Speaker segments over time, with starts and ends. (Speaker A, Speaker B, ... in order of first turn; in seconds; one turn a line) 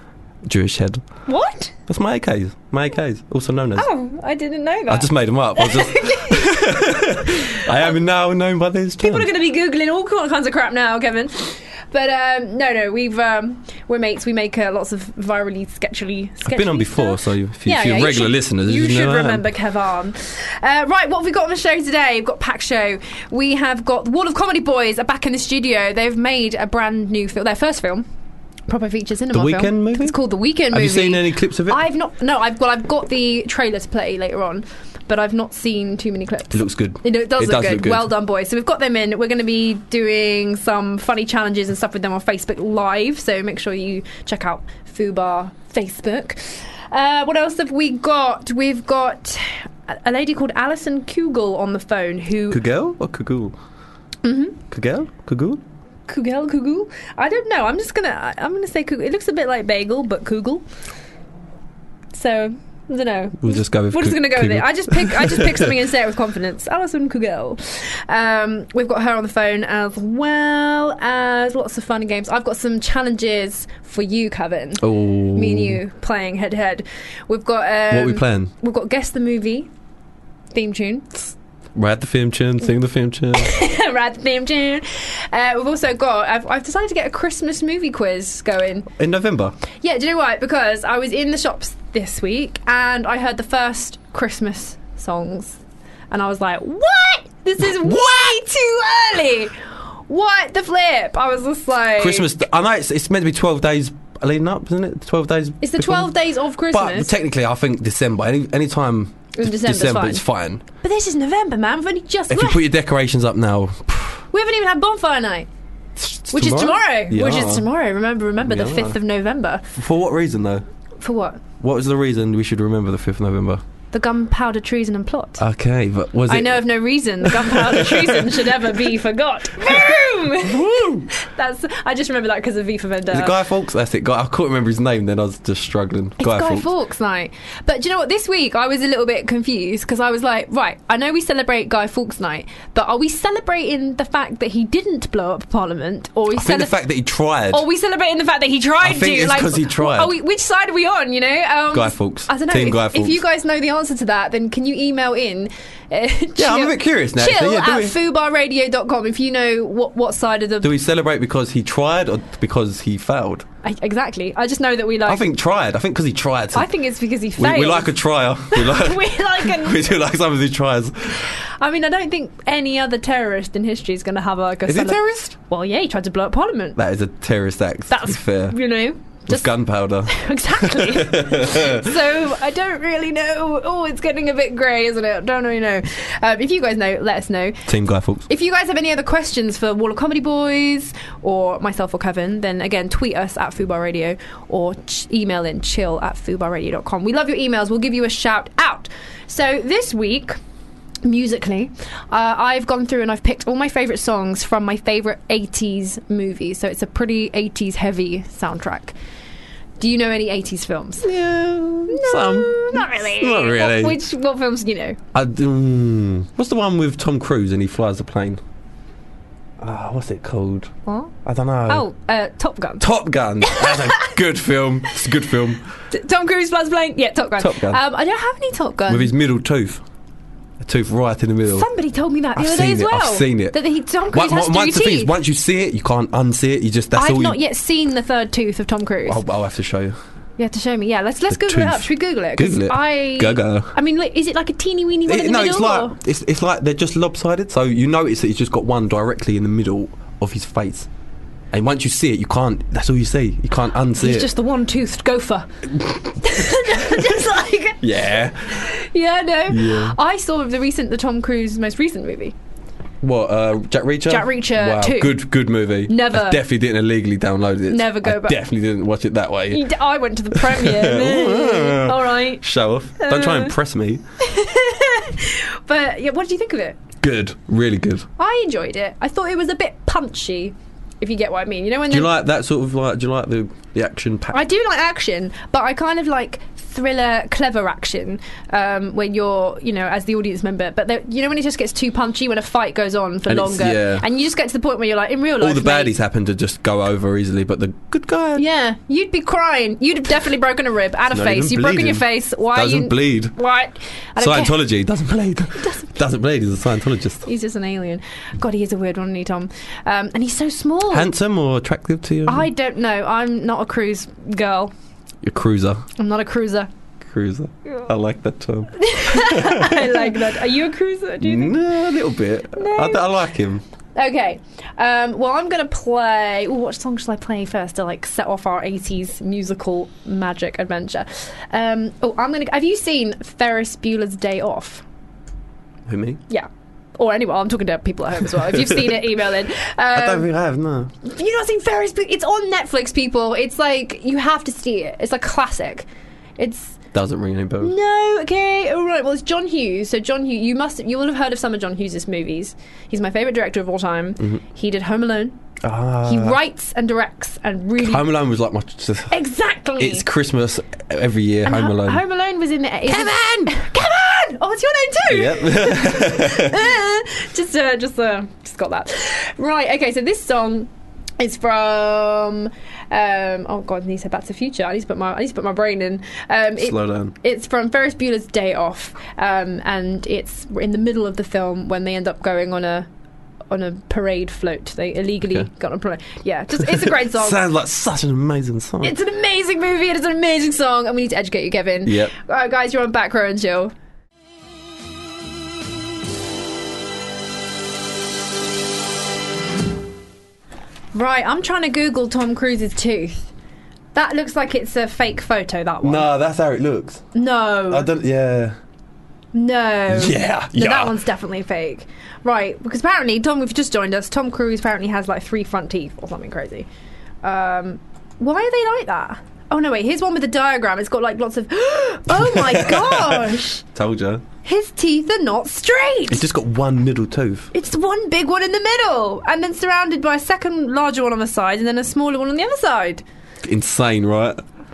Speaker A: 0.4-1.0
Speaker B: 1.3-1.7
Speaker A: 1.9-3.9
Speaker B: 3.8-8.0
Speaker A: 4.9-9.3
Speaker B: 9.0-28.0
Speaker A: 16.4-19.4
Speaker B: 28.7-52.6
Speaker A: 29.3-30.2
Speaker A: 30.7-31.8
Speaker A: 36.5-38.1
Speaker A: 52.5-53.5
Speaker B: 54.2-54.6
Speaker A: 54.7-55.6
Speaker B: 56.1-60.6
Speaker B: 62.1-79.7
Speaker A: 63.4-65.7
Speaker A: 74.8-75.8
Speaker A: 77.9-78.5
Speaker B: 80.5-81.1
Speaker A: 81.7-83.5
Speaker B: 83.3-88.9
Speaker A: 89.0-89.5
Speaker B: 89.8-95.6
Speaker B: 96.1-99.5
Speaker B: 100.1-102.3
Speaker A: 102.0-106.1
Speaker B: 105.6-107.1
Speaker A: 106.7-110.6
Speaker B: 109.3-110.2
Speaker B: 110.8-112.6
Speaker A: 112.3-114.2
Speaker B: 114.3-115.5
Speaker A: 116.0-117.7
Speaker B: 116.3-119.6
Speaker A: 118.4-119.0
Speaker A: 119.8-120.6
Speaker B: 121.0-121.4
Speaker A: 121.6-123.6
Speaker B: 123.9-125.4
Speaker A: 125.4-126.6
Speaker B: 126.3-133.4
Speaker A: 127.2-128.5
Speaker A: 129.6-131.1
Speaker A: 133.1-136.7
Speaker B: 136.2-146.8
Speaker A: 146.3-147.6
Speaker B: 147.5-160.7
Speaker A: 148.8-150.1
Speaker A: 151.7-153.2
Speaker A: 156.4-157.9
Speaker A: 160.6-163.4
Speaker B: 163.6-165.2
Speaker A: 165.1-166.7
Speaker B: 166.5-167.9
Speaker A: 167.4-171.2
Speaker B: 168.5-169.9
Speaker B: 171.6-176.8
Speaker A: 174.7-175.3
Speaker A: 176.8-178.6
Speaker B: 177.9-179.4
Speaker A: 179.3-181.9
Speaker B: 180.1-187.6
Speaker A: 187.7-188.3
Speaker B: 188.3-200.4
Speaker B: 201.0-208.9
Speaker B: 209.8-211.1
Speaker A: 211.0-214.0
Speaker B: 211.9-215.0
Speaker A: 215.1-218.4
Speaker A: 219.6-220.7
Speaker B: 220.9-221.1
Speaker A: 221.2-221.8
Speaker B: 221.7-222.8
Speaker A: 222.8-225.6
Speaker B: 223.4-224.1
Speaker B: 225.9-229.1
Speaker A: 227.4-227.8
Speaker A: 228.9-229.8
Speaker A: 230.6-231.7
Speaker B: 231.5-235.1
Speaker A: 232.3-233.6
Speaker A: 234.1-237.4
Speaker B: 236.9-239.2
Speaker A: 239.1-240.0
Speaker B: 240.4-245.9
Speaker A: 241.3-243.7
Speaker A: 245.1-250.9
Speaker A: 251.5-254.3
Speaker B: 254.0-255.5
Speaker B: 256.2-257.9
Speaker A: 257.8-258.6
Speaker B: 258.6-262.3
Speaker A: 259.5-259.9
Speaker A: 263.0-269.6
Speaker B: 264.1-265.3
Speaker B: 265.9-266.4
Speaker B: 267.7-268.4
Speaker B: 269.5-272.4
Speaker A: 270.3-274.0
Speaker B: 273.0-273.5
Speaker B: 274.2-276.8
Speaker A: 277.0-278.1
Speaker B: 278.2-282.1
Speaker A: 281.9-284.4
Speaker B: 284.3-295.9
Speaker A: 293.3-294.0
Speaker A: 295.4-298.4
Speaker B: 298.4-304.6
Speaker A: 301.1-303.3
Speaker A: 304.2-307.2
Speaker B: 307.2-311.1
Speaker A: 310.9-312.5
Speaker B: 312.2-314.7
Speaker A: 315.2-315.8
Speaker B: 316.0-316.7
Speaker A: 317.0-320.2
Speaker B: 318.8-321.6
Speaker A: 321.2-323.6
Speaker B: 322.5-323.1
Speaker B: 323.9-334.8
Speaker A: 335.9-336.2
Speaker B: 336.3-340.3
Speaker A: 339.9-340.9
Speaker B: 341.0-345.9
Speaker B: 346.4-346.8
Speaker A: 346.9-347.7
Speaker B: 347.6-355.4
Speaker A: 355.6-356.4
Speaker B: 356.0-358.1
Speaker A: 357.8-359.1
Speaker B: 359.1-360.1
Speaker A: 359.8-362.0
Speaker B: 361.4-382.9
Speaker A: 362.9-363.5
Speaker A: 365.1-366.6
Speaker A: 376.6-377.1
Speaker B: 383.5-387.4
Speaker A: 385.2-385.5
Speaker A: 386.6-388.9
Speaker B: 388.8-393.7
Speaker A: 391.8-392.1
Speaker B: 400.9-403.3
Speaker B: 403.9-406.1
Speaker A: 405.8-407.1
Speaker B: 407.1-407.9
Speaker A: 407.7-408.6
Speaker B: 409.3-416.7
Speaker A: 409.9-410.9
Speaker B: 417.2-423.6
Speaker A: 422.1-424.2
Speaker B: 424.4-426.2
Speaker A: 426.1-427.5
Speaker B: 427.5-433.0
Speaker A: 433.4-434.4